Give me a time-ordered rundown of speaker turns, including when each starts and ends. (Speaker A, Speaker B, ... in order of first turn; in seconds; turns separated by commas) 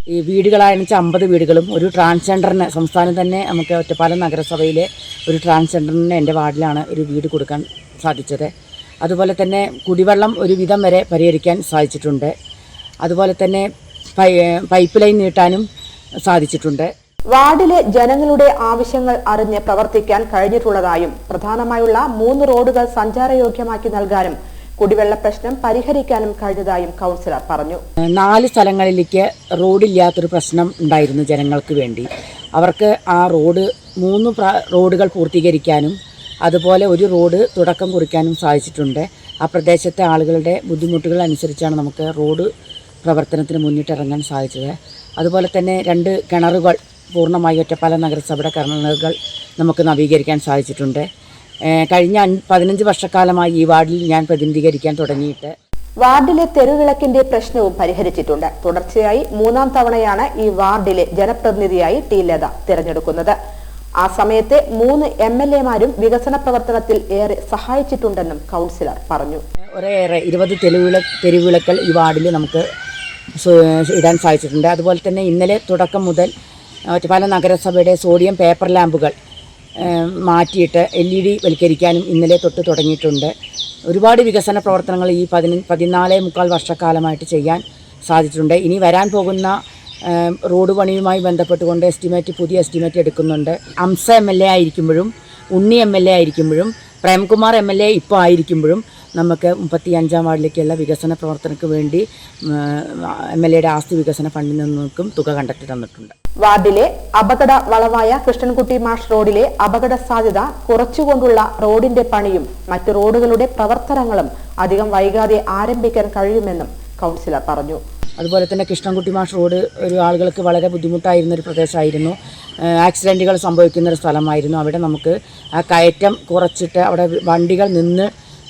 Speaker A: 0.1-8.5, Speaker A: 9.0-12.3, Speaker A: 13.0-15.7, Speaker A: 16.3-16.9, Speaker B: 17.3-27.8, Speaker A: 28.1-42.5, Speaker A: 43.0-51.0, Speaker A: 51.7-55.5, Speaker B: 56.0-63.4, Speaker B: 64.0-69.4, Speaker A: 69.8-72.7, Speaker A: 73.4-76.3, Speaker A: 76.9-79.2, Speaker A: 79.8-83.3, Speaker A: 83.9-106.1, Speaker B: 106.4-117.8, Speaker A: 118.2-128.1